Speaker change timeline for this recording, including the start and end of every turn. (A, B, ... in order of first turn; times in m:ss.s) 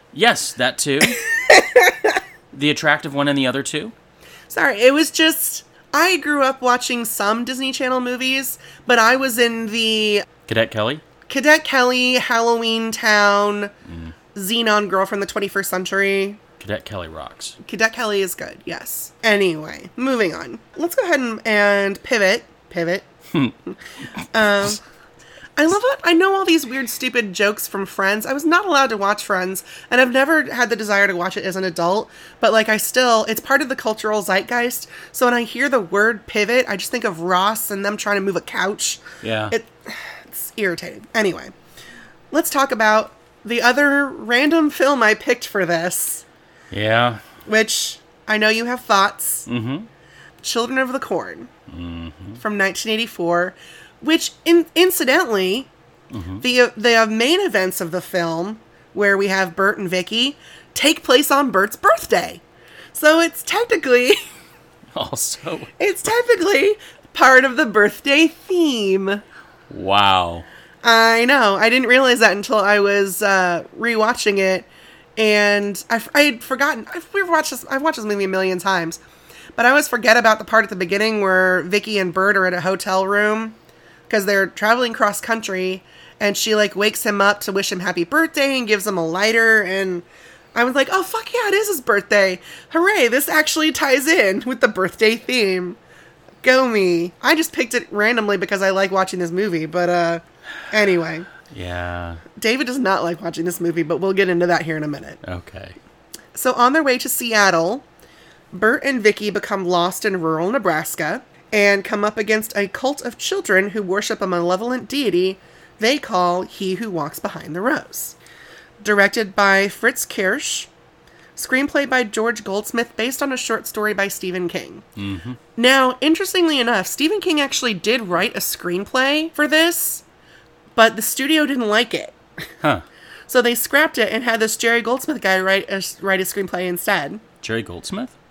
0:00.1-0:01.2 A
0:01.2-0:02.1 B
0:02.5-0:03.9 A
0:04.5-0:10.3 B
0:10.5-0:11.0 A
0:11.3-0:13.7 B
0:13.9-0:14.1 A
0:14.3-0:16.4 B
0:16.6-0:17.6 A
0:17.6-0:23.1 B
0:24.3-0:24.8 B
0:25.6-0:41.5 B
0:39.2-0:39.6 A
0:42.3-0:46.2 B
0:46.7-0:47.2 A
0:47.5-0:49.5 B
0:49.5-0:49.9 A
0:50.4-0:51.5 B
0:51.7-0:52.4 A
0:52.4-0:55.7 B
0:56.1-0:56.4 A
0:56.4-1:02.4 B
1:02.9-1:04.2 B
1:04.9-1:05.7 A
1:05.8-1:09.2 B
1:09.7-1:10.5 A
1:10.8-1:19.0 B
1:19.6-1:23.6 B
1:24.1-1:35.8 B
1:36.4-1:41.3 B
1:41.5-1:42.2 A
1:42.4-1:45.2 B
1:45.2-1:45.8 A
1:46.4-1:47.8 B
1:48.5-1:58.2 B
1:58.8-2:00.7 B
2:01.4-2:04.8 B
2:05.0-2:05.4 A
2:05.6-2:10.0 B
2:10.8-2:12.2 B
2:13.3-2:17.2 B
2:17.4-2:18.1 A